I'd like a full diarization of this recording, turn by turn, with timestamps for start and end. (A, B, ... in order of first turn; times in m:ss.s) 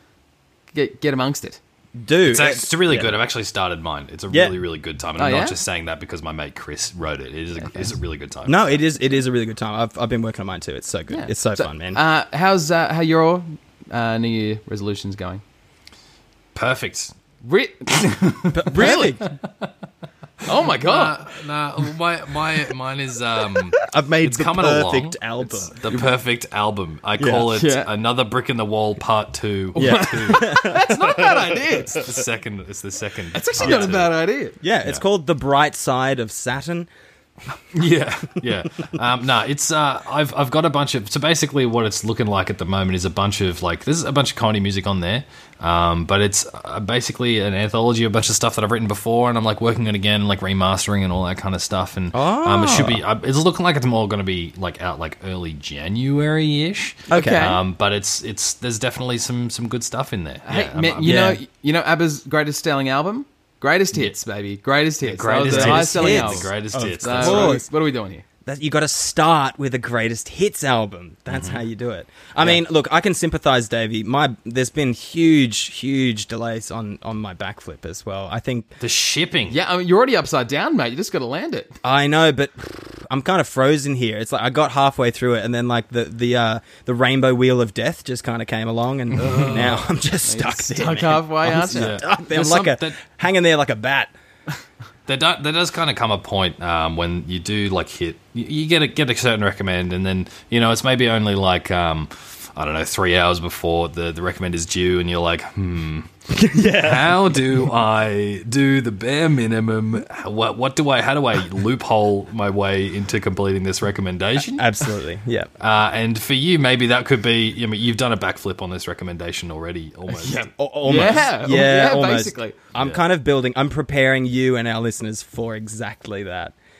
0:00.7-0:01.6 A
0:02.0-0:03.1 B
0:02.2-0:08.8 C
0:04.3-0:04.6 B
0:05.2-0:05.6 A
0:07.6-0:07.9 A
0:08.4-0:12.0 B
0:11.1-0:15.4 A
0:16.5-0:17.1 C
0:17.4-0:19.2 A
0:18.5-0:19.2 B
0:20.4-0:21.2 A
0:20.7-0:30.5 C
0:23.8-0:25.7 B
0:27.2-0:27.5 B
0:27.5-0:27.9 A
0:29.7-0:32.0 A
0:29.8-0:31.3 B
0:31.9-0:34.1 C
0:33.3-0:34.6 A
0:33.6-0:34.0 B
0:34.6-0:36.9 B
0:37.7-1:01.3 C
0:52.1-0:53.0 B
0:57.1-0:57.5 B
0:57.1-0:57.6 A
1:00.4-1:08.2 A
1:01.0-1:01.4 B
1:05.0-1:07.6 C
1:05.5-1:07.6 B
1:08.4-1:18.7 B
1:11.3-1:11.6 C
1:18.8-1:19.6 C
1:19.5-1:21.8 A
1:21.8-1:34.1 B
1:29.2-1:29.8 C
1:29.4-1:32.0 A
1:31.5-1:33.0 C
1:35.1-1:54.8 C
1:46.3-1:47.4 B
1:54.5-1:55.5 B
1:55.6-2:01.3 C
2:00.2-2:02.6 A
2:00.5-2:06.5 B